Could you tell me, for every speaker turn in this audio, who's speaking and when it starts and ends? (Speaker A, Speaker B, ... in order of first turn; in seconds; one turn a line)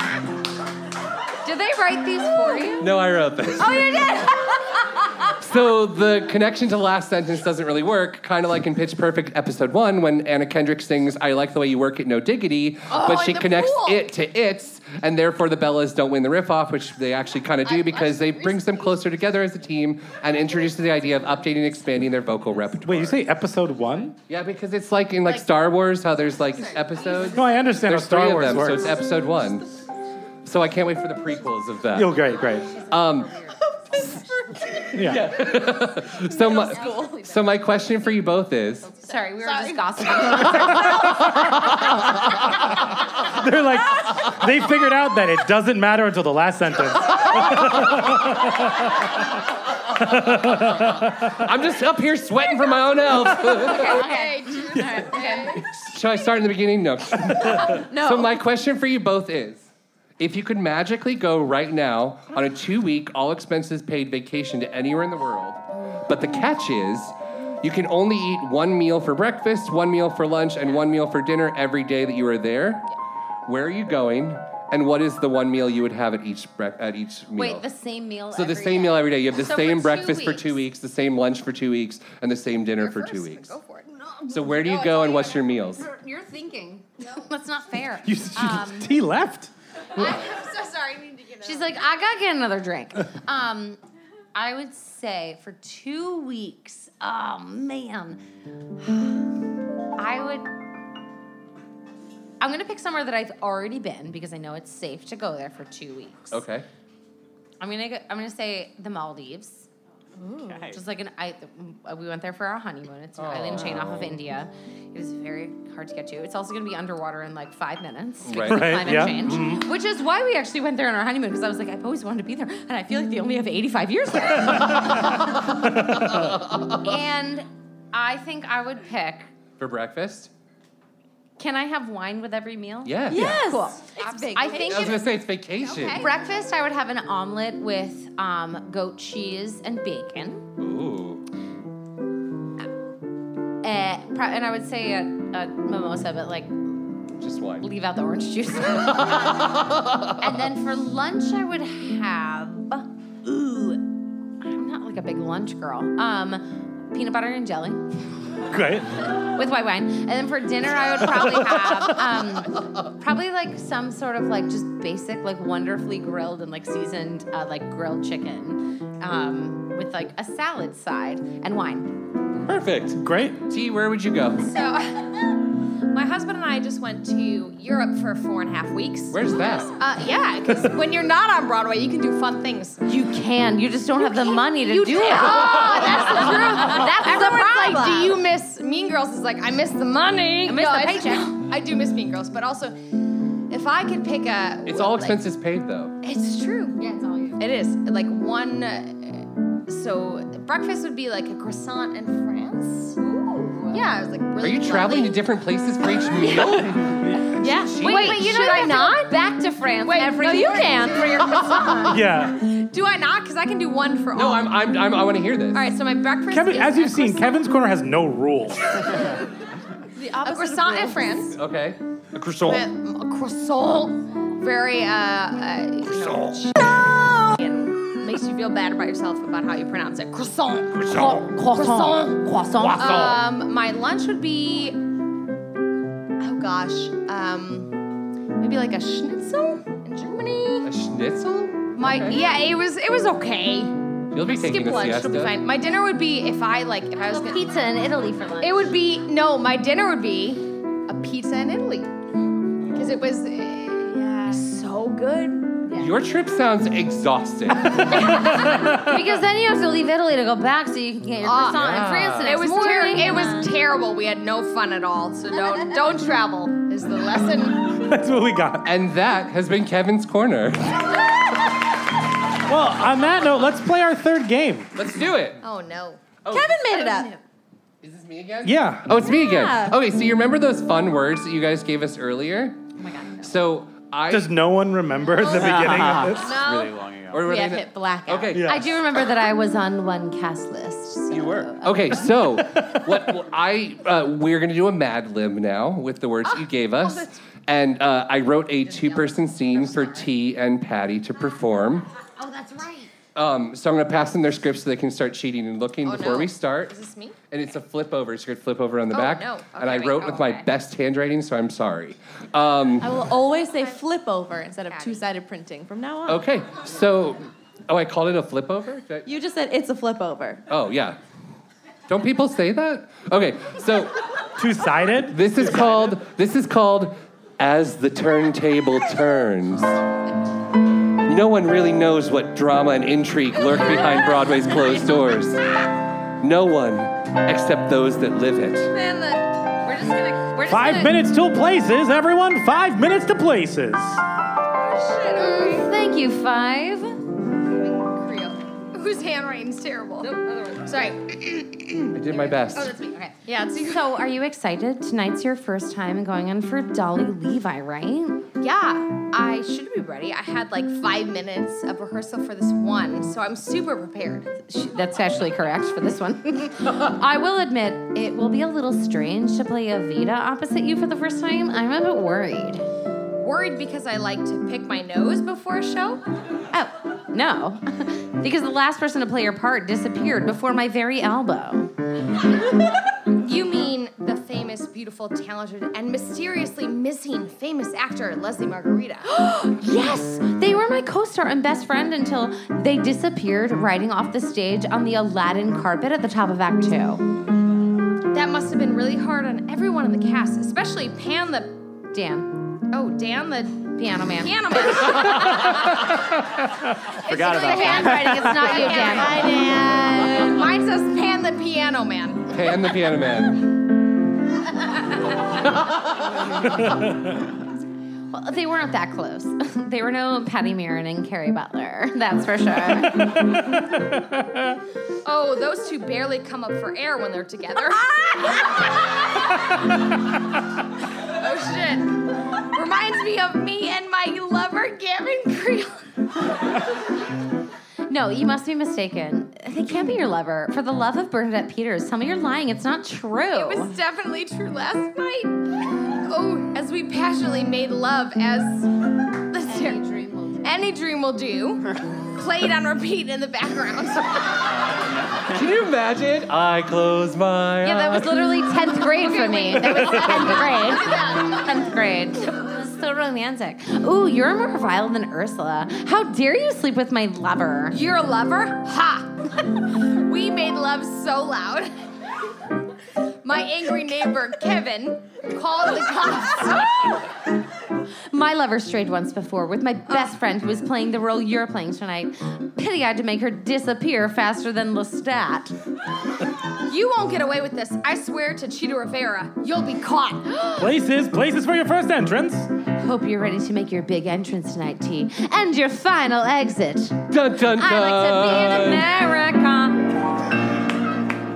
Speaker A: 1.4-2.9
Speaker B: 2.8-4.1
Speaker A: 3.6-4.2
Speaker B: 5.3-23.2
Speaker C: 12.9-14.1
Speaker C: 17.6-19.0
Speaker D: 22.8-24.2
Speaker B: 24.3-29.7
Speaker C: 26.6-27.4
Speaker D: 27.3-29.0
Speaker B: 30.4-32.2
Speaker D: 31.9-32.7
Speaker A: 32.6-33.6
Speaker B: 32.9-33.3
Speaker B: 34.8-38.9
Speaker D: 34.9-35.4
Speaker C: 36.3-37.6
Speaker A: 39.0-41.0
Speaker C: 39.0-40.8
Speaker B: 41.3-41.9
Speaker D: 43.3-48.7
Speaker D: 50.0-51.3
Speaker B: 50.4-54.1
Speaker C: 53.6-55.6
Speaker A: 53.6-55.6
Speaker B: 55.7-72.9
Speaker A: 57.7-58.3
Speaker B: 73.5-77.7
Speaker A: 77.4-80.6
Speaker B: 78.3-83.5
Speaker C: 82.8-85.6
Speaker B: 84.3-85.9
Speaker A: 85.7-88.9
Speaker D: 88.0-90.1
Speaker C: 90.0-91.8
Speaker A: 91.4-93.8
Speaker A: 94.3-98.2
Speaker A: 98.8-99.1
Speaker A: 100.0-100.5
Speaker A: 102.4-106.4
Speaker B: 106.3-106.7
Speaker A: 107.6-109.7
Speaker E: 110.2-110.6
Speaker A: 110.5-124.9
Speaker B: 113.2-114.1
Speaker B: 118.3-119.5
Speaker D: 118.4-119.7
Speaker B: 126.1-126.7
Speaker A: 126.8-129.3
Speaker B: 129.6-130.3
Speaker A: 131.4-135.0
Speaker B: 132.8-133.4
Speaker E: 133.1-134.7
Speaker C: 134.0-136.2
Speaker B: 134.6-136.1
Speaker A: 135.9-140.4
Speaker B: 140.6-141.2
Speaker A: 143.6-146.5
Speaker B: 147.2-147.7
Speaker A: 147.6-149.4
Speaker B: 149.0-150.1
Speaker A: 150.2-153.8
Speaker A: 154.4-157.9
Speaker D: 158.5-158.9
Speaker A: 159.2-172.0
Speaker D: 161.2-161.9
Speaker B: 172.5-173.0
Speaker D: 172.9-173.4
Speaker B: 173.5-174.5
Speaker C: 174.4-175.2
Speaker C: 175.9-182.8
Speaker B: 179.1-179.7
Speaker A: 182.9-188.2
Speaker C: 184.0-192.8
Speaker B: 185.7-185.9
Speaker E: 186.7-187.8
Speaker A: 190.5-191.4
Speaker C: 193.5-195.2
Speaker B: 194.7-195.9
Speaker C: 196.0-205.3
Speaker A: 196.9-197.4
Speaker B: 204.4-207.0
Speaker C: 206.2-206.6
Speaker A: 207.4-211.6
Speaker B: 207.6-208.3
Speaker C: 207.8-209.2
Speaker C: 209.8-214.6
Speaker D: 211.9-212.4
Speaker B: 214.1-215.7
Speaker C: 215.5-217.4
Speaker D: 216.3-218.9
Speaker E: 220.0-221.2
Speaker A: 220.2-221.0
Speaker C: 220.2-221.3
Speaker B: 221.3-222.7
Speaker C: 222.4-232.2
Speaker B: 225.9-226.5
Speaker B: 230.7-231.3
Speaker A: 230.9-233.2
Speaker B: 232.6-233.0
Speaker C: 232.8-234.8
Speaker C: 236.2-237.8
Speaker C: 238.4-240.7
Speaker B: 240.7-242.2
Speaker C: 241.8-247.5
Speaker B: 244.1-245.4
Speaker A: 247.0-248.8
Speaker C: 248.4-251.9
Speaker C: 252.7-255.6
Speaker B: 255.8-258.0
Speaker A: 257.9-263.5
Speaker D: 257.9-258.9
Speaker C: 261.2-267.8
Speaker B: 261.5-262.4
Speaker D: 267.8-268.7
Speaker B: 268.6-270.8
Speaker D: 272.5-274.7
Speaker B: 274.8-275.4
Speaker C: 275.4-276.1
Speaker B: 276.2-277.0
Speaker E: 276.3-277.1
Speaker B: 277.8-282.6
Speaker D: 278.4-279.0
Speaker E: 279.0-279.6
Speaker A: 282.8-283.3
Speaker B: 283.2-284.4
Speaker D: 284.1-286.4
Speaker C: 285.2-285.5
Speaker B: 285.4-288.4
Speaker C: 286.1-286.7
Speaker C: 287.2-288.3
Speaker D: 288.3-288.7
Speaker A: 288.4-292.0
Speaker B: 291.1-301.9
Speaker C: 296.2-297.2
Speaker C: 298.6-300.1
Speaker C: 302.2-302.9
Speaker B: 303.1-306.7
Speaker C: 305.8-307.2
Speaker B: 307.3-312.9
Speaker C: 308.9-310.4
Speaker E: 312.8-316.2
Speaker C: 313.5-313.8
Speaker C: 314.7-315.1
Speaker B: 316.1-319.1
Speaker E: 319.1-320.4
Speaker B: 320.5-321.0
Speaker B: 321.9-323.9
Speaker D: 324.4-325.5
Speaker B: 325.1-329.8
Speaker B: 331.1-335.4
Speaker B: 336.2-338.7
Speaker A: 338.8-341.0
Speaker D: 340.5-344.0
Speaker C: 344.5-345.7
Speaker A: 345.1-347.0
Speaker C: 347.5-353.9
Speaker B: 351.9-352.7
Speaker A: 353.5-358.2
Speaker C: 358.4-364.3
Speaker A: 364.5-372.6
Speaker C: 373.2-376.0
Speaker A: 376.5-381.7
Speaker C: 383.1-389.2
Speaker A: 389.2-397.0
Speaker C: 398.1-401.5
Speaker A: 401.9-402.3
Speaker C: 402.7-405.9
Speaker A: 403.8-404.9
Speaker C: 407.0-412.3
Speaker D: 407.1-407.5
Speaker A: 407.1-409.4
Speaker E: 408.4-410.4
Speaker B: 412.3-413.5
Speaker A: 418.1-423.2
Speaker C: 425.1-429.4
Speaker C: 431.2-432.0
Speaker C: 432.5-435.8
Speaker A: 437.9-443.8
Speaker C: 443.3-445.4
Speaker C: 446.1-448.7
Speaker C: 449.3-449.9
Speaker A: 449.5-450.4
Speaker C: 450.4-454.6
Speaker B: 455.3-458.2
Speaker A: 457.6-467.8
Speaker C: 458.9-461.7
Speaker C: 467.7-469.1
Speaker C: 470.1-471.7
Speaker C: 473.2-476.9
Speaker A: 478.1-485.6
Speaker C: 486.7-490.7
Speaker D: 490.6-492.5
Speaker A: 492.8-497.0
Speaker B: 497.1-498.9
Speaker A: 497.6-499.8